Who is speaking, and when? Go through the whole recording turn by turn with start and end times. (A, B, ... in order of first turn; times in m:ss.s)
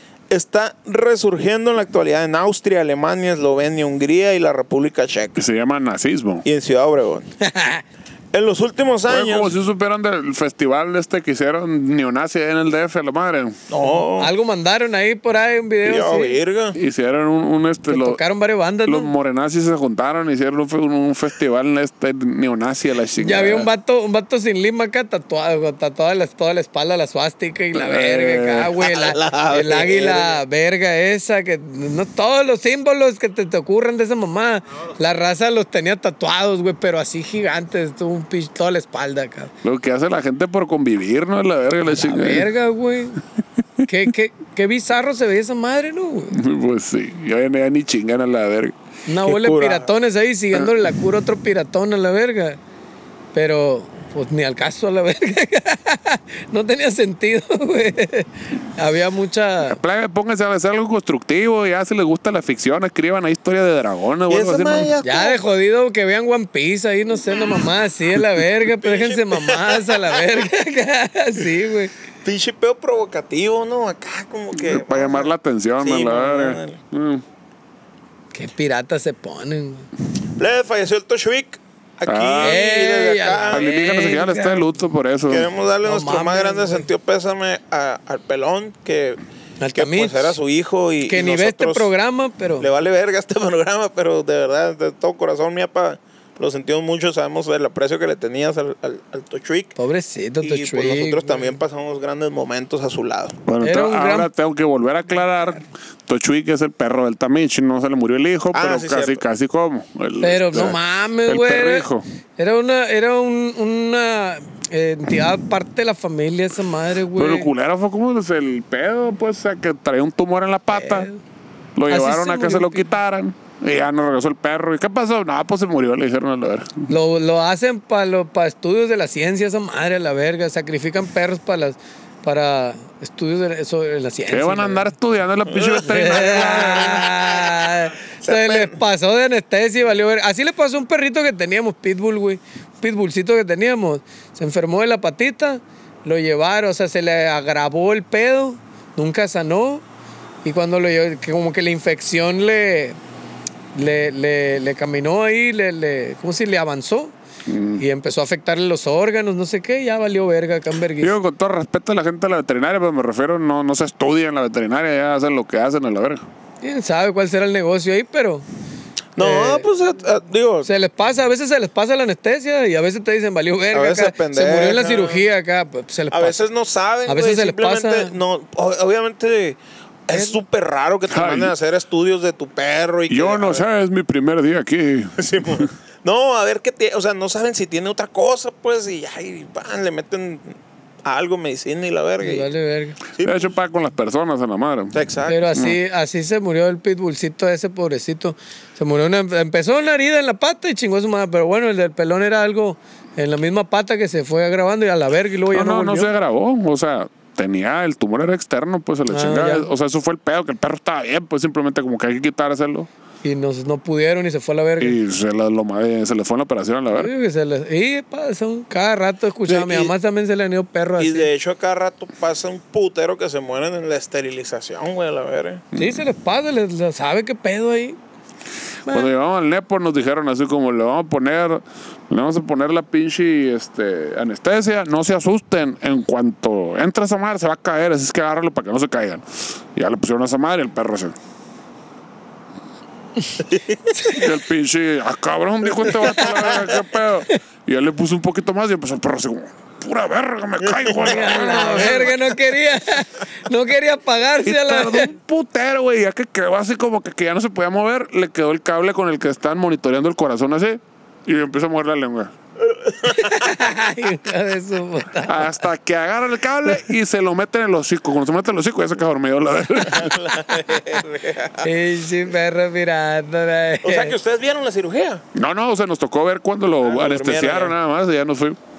0:00.3-0:05.4 A
0:05.4-0:06.5 B
0:06.4-0:07.3 A
0:07.4-0:07.8 C
0:08.3-0:09.5 A
0:09.1-0:13.6 B
0:13.7-0:14.3 A
0:14.2-0:16.4 C
0:15.8-0:16.8 A
0:16.8-0:18.2 B
0:17.9-0:19.1 C
0:18.9-0:23.7 B
0:23.2-0:39.5 C
0:27.8-0:28.7 B
0:28.8-0:30.4 A
0:39.6-0:42.5 B
0:41.8-0:43.2 C
0:43.8-0:46.4 C
0:46.3-0:48.8 B
0:49.1-0:52.6 C
0:49.2-0:49.9 A
0:53.3-0:59.8 C
0:59.6-1:04.9 B
1:04.3-1:05.5 A
1:05.0-1:11.9 C
1:08.8-1:10.4 A
1:12.2-1:16.8 A
1:14.5-1:17.2 B
1:18.3-1:19.9 C
1:20.4-1:23.7 A
1:22.1-1:22.6 B
1:22.4-1:24.6 C
1:23.5-1:25.5 B
1:25.3-1:29.2 A
1:25.8-1:26.9 C
1:29.6-1:30.4 C
1:29.8-1:31.9 A
1:31.0-1:32.7 C
1:32.6-1:39.8 A
1:39.8-1:41.5 C
1:40.4-1:43.4 A
1:43.5-1:52.0 B
1:43.6-1:44.3 C
1:48.5-1:49.2 A
1:50.2-1:51.9 C
1:52.4-1:57.5 C
1:57.2-2:01.1 B
2:00.7-2:01.2 C
2:01.8-2:06.9 B
2:01.9-2:02.9 C
2:06.9-2:14.9 C
2:14.3-2:17.1 B
2:15.5-2:17.6 A
2:15.8-2:29.8 C
2:18.2-2:18.8 A
2:30.4-2:33.0 C
2:33.8-2:37.1 C
2:37.5-2:37.8 B
2:37.8-2:41.1 C
2:41.0-2:46.2 B
2:46.6-2:48.5 C
2:49.2-2:50.7 A
2:49.2-2:49.7 C
2:50.6-2:56.4 C
2:53.7-2:55.2 A
2:56.1-3:03.6 A
2:57.1-2:58.2 C
3:01.1-3:01.5 B
3:03.1-3:05.7 B
3:05.2-3:12.5 A
3:12.2-3:13.0 C
3:13.2-3:13.6 A
3:13.2-3:15.0 B
3:14.9-3:15.5 A
3:15.3-3:26.1 C
3:25.5-3:32.9 B
3:29.1-3:29.7 C
3:33.2-3:35.0 C
3:34.8-3:37.1 B
3:36.9-3:41.3 C
3:39.5-3:39.9 A
3:41.0-3:45.6 A
3:45.8-3:46.0 B
3:45.8-3:48.0 C
3:48.9-3:59.2 B
3:59.8-4:01.2 B
4:03.4-4:04.0 A
4:04.1-4:12.1 B
4:06.1-4:06.6 A
4:10.6-4:12.1 A
4:11.0-4:15.1 C
4:14.4-4:22.3 B
4:22.6-4:23.5 A
4:23.1-4:25.6 C
4:25.3-4:30.2 B
4:29.9-4:31.7 A
4:31.6-4:34.2 C
4:33.8-4:35.2 A
4:35.4-4:38.6 B
4:36.8-4:37.8 A